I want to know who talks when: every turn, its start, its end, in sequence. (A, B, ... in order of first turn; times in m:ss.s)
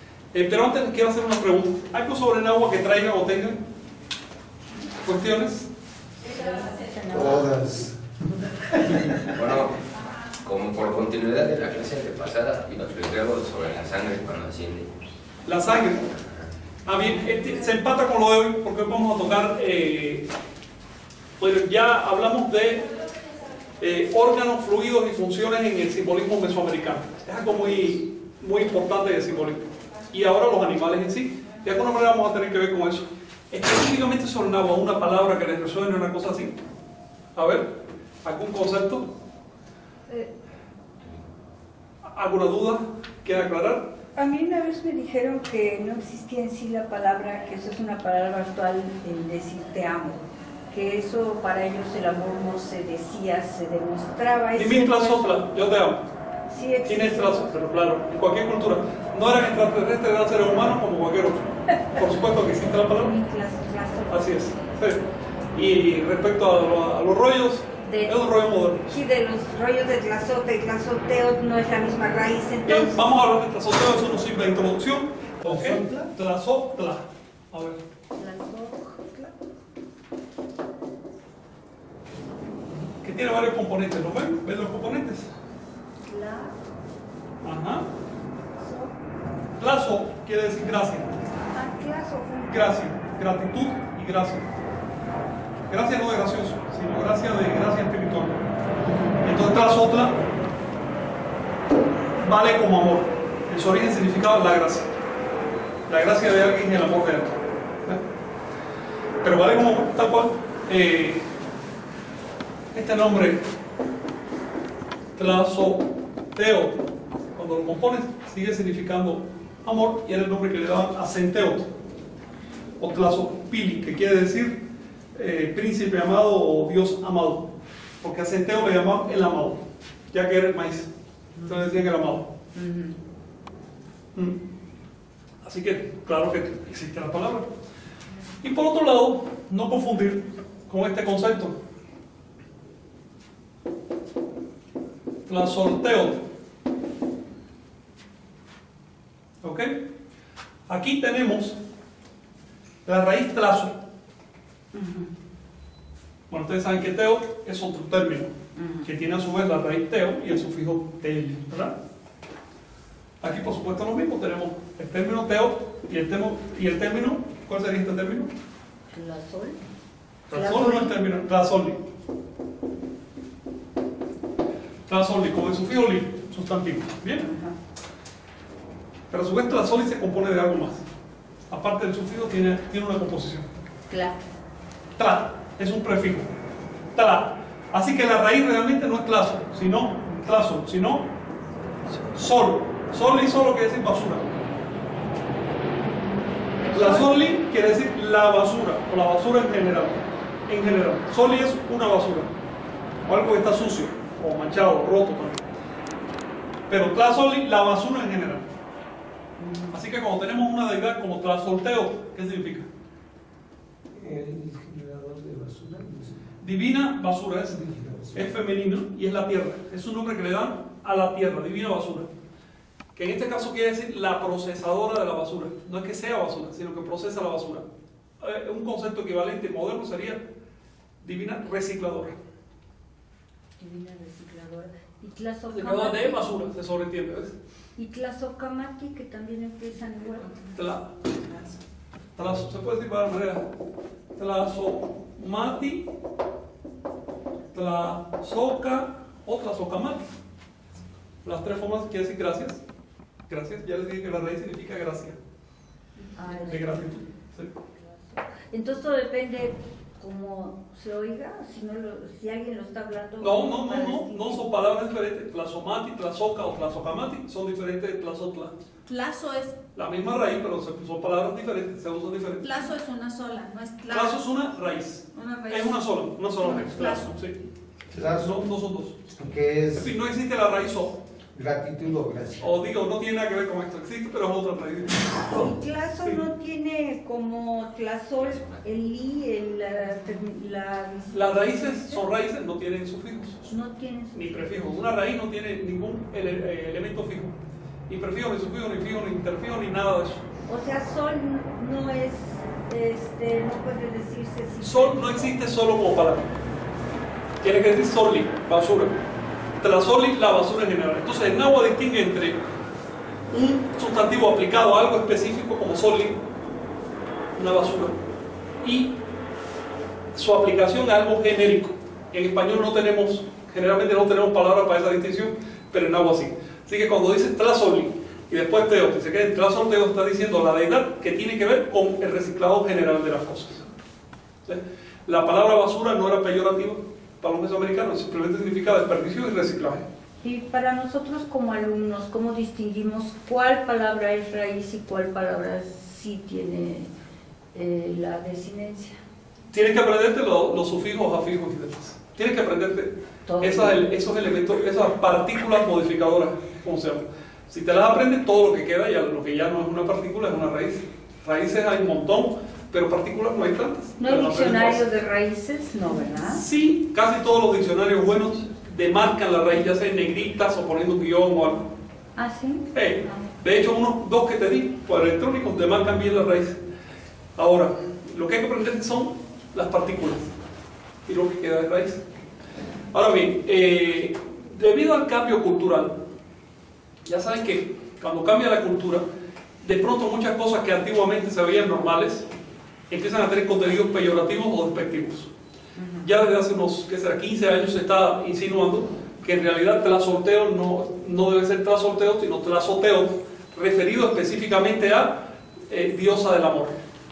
0:00.3-0:03.6 A
0:05.0-0:05.7 A
0:06.3-0:07.5 B
0:07.1-0:09.3 C
0:08.9-0:09.9 D
0:10.4-0:14.9 D
0:15.4-0:16.1 A
0:16.2-0:16.5 D
0:16.9-0:20.3 A
0:21.4-0:22.9 A
0:23.8-0:36.6 A
0:37.4-0:37.7 A
0:38.2-0:39.0 A
0:42.1-0:43.9 A
0:44.2-0:55.4 B
0:54.6-0:56.0 A
0:56.5-0:57.6 B
0:56.9-1:03.1 A
1:02.6-1:04.9 B
1:04.1-1:05.0 A
1:05.5-1:09.0 A
1:07.8-1:08.2 B
1:08.9-1:13.0 B
1:12.7-1:17.8 A
1:15.4-1:16.1 C
1:18.2-1:19.3 B
1:22.7-1:25.3 A
1:26.0-1:26.6 B
1:27.4-1:27.8 A
1:28.6-1:28.9 B
1:29.6-1:31.1 A
1:31.5-1:32.7 B
1:32.5-1:34.5 A
1:35.7-1:38.4 A
1:39.2-1:40.2 A
1:42.2-1:44.9 A
1:45.9-1:48.0 A
1:49.2-1:51.3 A
1:52.7-1:53.4 A
1:55.2-2:01.7 A
2:02.8-2:04.6 A
2:05.2-2:10.9 A
2:11.4-2:12.3 A
2:12.6-2:13.0 B
2:14.2-2:14.4 A
2:15.4-2:17.5 A
2:18.4-2:21.6 A
2:25.3-2:26.2 A
2:29.4-2:29.8 A
2:30.7-2:31.6 A
2:32.9-2:33.8 A
2:34.8-2:35.0 B
2:36.3-2:38.3 A
2:38.6-2:38.9 B
2:38.8-2:41.8 A
2:43.2-2:48.3 A
2:48.9-2:49.6 B
2:50.3-2:50.9 B
2:50.3-2:51.8 A
2:54.9-2:57.3 A
2:57.2-2:57.6 B
2:59.1-3:00.8 A
3:01.5-3:03.5 A
3:03.9-3:04.2 B
3:05.0-3:06.3 A
3:07.0-3:11.1 A
3:12.1-3:14.4 A
3:16.6-3:17.1 B
3:16.7-3:22.3 A
3:23.1-3:25.4 A
3:26.7-3:28.5 A
3:29.7-3:32.7 A
3:33.9-3:36.2 C
3:36.4-3:42.1 A
3:37.7-3:38.3 C
3:43.0-3:47.7 A
3:48.2-3:50.2 A
3:51.0-3:52.2 A
3:53.6-3:56.3 B
3:55.5-3:57.3 A
3:57.8-4:00.4 B
4:00.6-4:01.0 A
4:01.1-4:01.5 E
4:02.2-4:03.5 A
4:04.2-4:05.9 A
4:07.5-4:10.0 A
4:11.2-4:12.6 A
4:13.3-4:15.2 A
4:16.2-4:16.9 B
4:16.5-4:17.5 A
4:17.7-4:24.4 B
4:23.2-4:28.5 A
4:28.9-4:29.6 E
4:29.8-4:32.6 A
4:32.4-4:34.2 E
4:33.9-4:37.4 A
4:35.1-4:35.8 E
4:36.4-4:37.2 E
4:37.9-4:38.4 C
4:38.1-4:39.1 A
4:39.2-4:39.9 C
4:39.7-4:41.0 A
4:41.3-4:42.5 C
4:42.4-4:45.5 A
4:45.2-4:52.0 B
4:48.2-4:48.6 D
4:51.1-4:53.4 A
4:53.5-4:54.7 B
4:54.1-4:57.4 A
4:57.9-5:00.2 A
5:00.5-5:05.3 B
5:04.6-5:06.3 A
5:07.4-5:08.9 A
5:09.6-5:12.4 A
5:13.3-5:16.2 A
5:17.4-5:18.0 A
5:18.6-5:18.9 A
5:20.2-5:33.7 A
5:34.5-5:39.9 A
5:40.2-5:46.9 B
5:47.5-5:49.0 B
5:49.5-6:04.8 A
5:53.3-5:53.9 B
6:04.0-6:06.4 B
6:06.3-6:11.7 A
6:12.2-6:12.7 B
6:12.7-6:16.6 A
6:17.4-6:20.3 A
6:21.1-6:22.0 A
6:22.9-6:26.0 A
6:27.0-6:29.0 A
6:29.6-6:32.3 A
6:32.9-6:35.3 A
6:35.8-6:36.1 B
6:36.0-6:46.8 A